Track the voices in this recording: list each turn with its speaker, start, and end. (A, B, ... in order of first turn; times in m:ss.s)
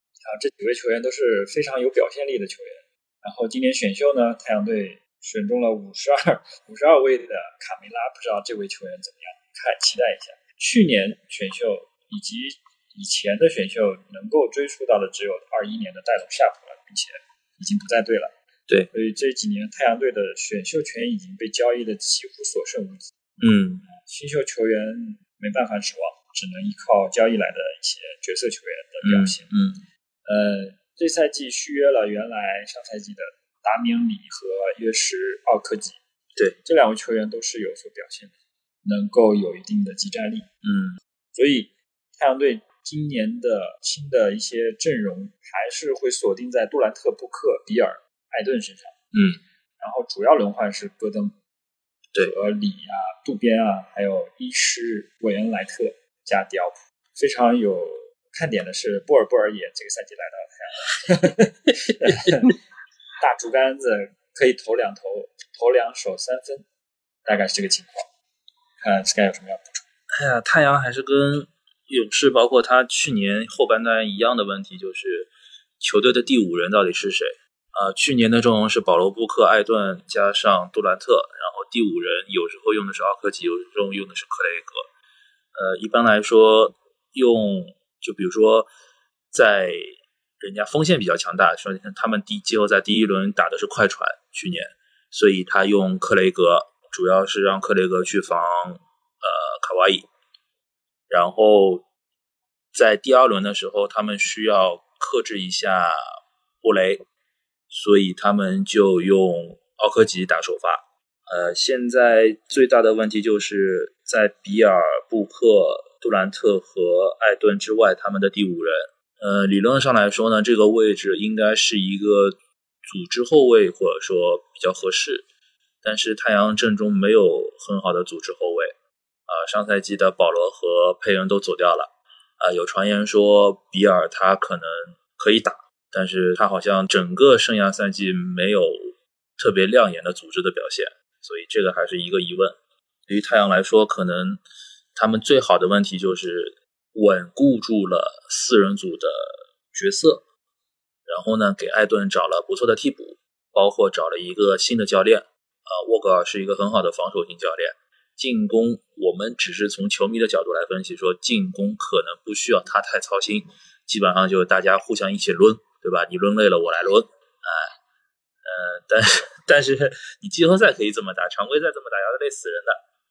0:00.2-0:18.3 A
0:18.9-0:23.1 A
0:23.4-0:23.8 B
0:23.9-0:29.5 A
0:29.0-0:29.8 B
0:30.3-0:36.0 A
0:36.6-0:40.5 A
0:40.6-0:41.0 B
0:41.3-0:49.0 A
0:49.1-0:49.4 B
0:49.8-0:51.4 A
0:52.2-1:02.6 A
1:03.2-1:06.6 A
1:07.2-1:08.1 A
1:08.8-1:09.9 A
1:10.1-1:15.3 B
1:15.8-1:24.9 B
1:25.6-1:28.7 B
1:29.3-1:40.1 B
1:41.1-1:41.8 B
1:42.7-1:47.0 B
1:47.7-2:05.3 B
2:05.8-2:08.7 B
2:09.3-2:22.6 B
2:23.1-2:24.4 B
2:25.0-2:30.2 B
2:31.1-2:47.7 B
2:48.4-2:52.8 B